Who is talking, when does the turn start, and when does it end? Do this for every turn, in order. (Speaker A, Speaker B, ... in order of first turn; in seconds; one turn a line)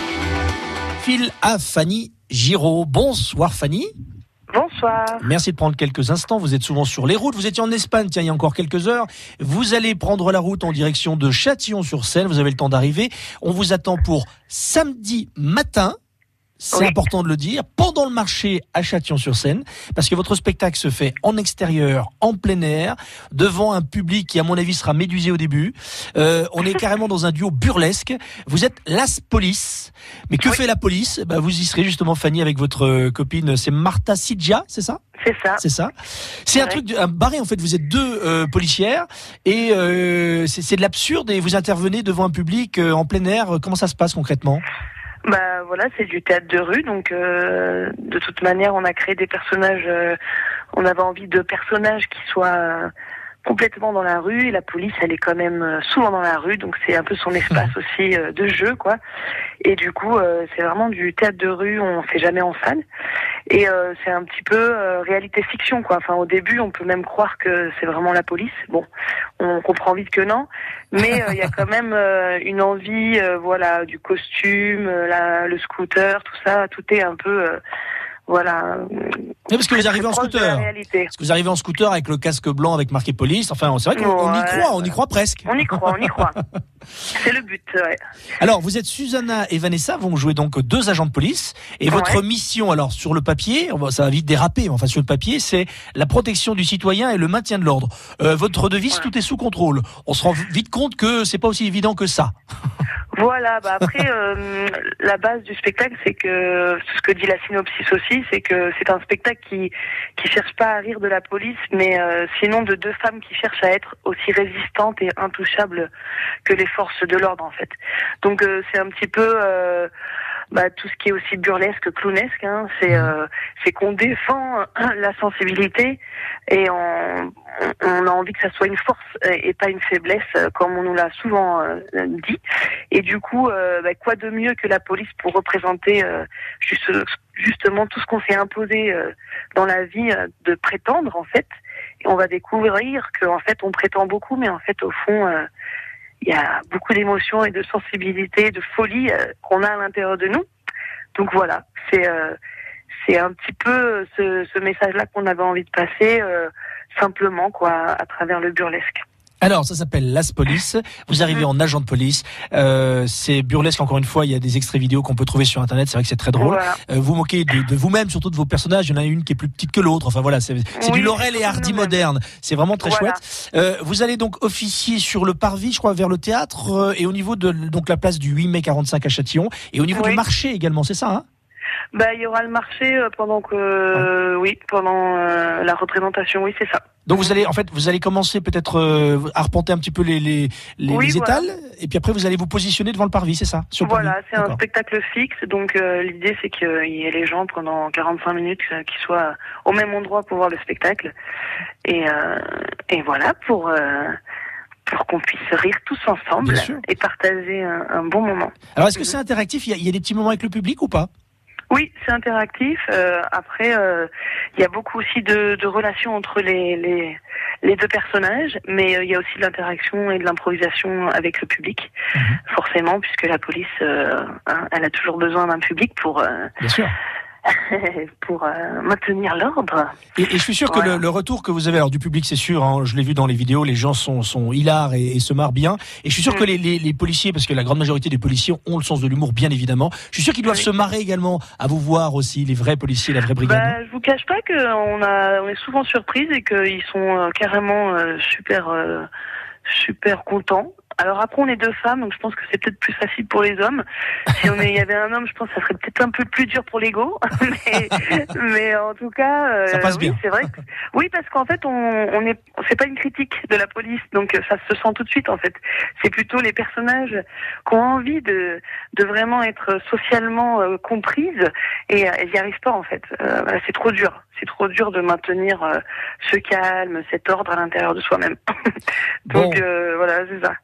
Speaker A: 1.0-3.9
Speaker B: 4.5-5.3
Speaker A: 5.2-15.9
Speaker A: 16.6-35.0
Speaker B: 35.2-35.6
Speaker A: 35.6-35.9
Speaker A: 36.5-44.6
Speaker B: 36.5-36.8
Speaker B: 45.2-50.2
Speaker B: 50.7-52.9
Speaker B: 53.4-59.0
Speaker B: 59.6-62.8
Speaker B: 63.5-68.9
Speaker B: 69.4-77.6
Speaker B: 78.3-81.1
Speaker A: 79.5-86.2
Speaker B: 83.9-86.4
Speaker B: 87.1-88.0
Speaker A: 88.4-102.3
Speaker B: 91.9-92.2
Speaker B: 103.1-115.9
Speaker B: 116.4-119.9
Speaker B: 120.5-132.4
Speaker B: 132.9-141.5
Speaker B: 142.0-145.4
Speaker B: 146.2-150.4
Speaker B: 151.2-152.4
Speaker B: 153.0-159.0
Speaker A: 159.4-181.2
Speaker B: 166.4-166.8
Speaker B: 170.8-172.1
Speaker B: 172.8-173.2
Speaker B: 179.9-180.2
Speaker B: 181.9-187.3
Speaker A: 187.1-194.6
Speaker B: 190.9-191.5
Speaker B: 193.8-201.1
Speaker B: 201.8-204.2
Speaker B: 204.9-209.2
Speaker A: 206.4-206.8
Speaker A: 208.8-211.1
Speaker B: 211.7-221.9
Speaker A: 222.2-222.4
Speaker B: 222.5-226.5
Speaker A: 226.6-226.9
Speaker B: 227.5-230.0
Speaker A: 230.2-243.8
Speaker B: 230.7-231.0
Speaker B: 243.4-249.1
Speaker B: 249.7-278.8
Speaker A: 259.7-260.2
Speaker B: 279.3-280.6
Speaker A: 279.3-279.6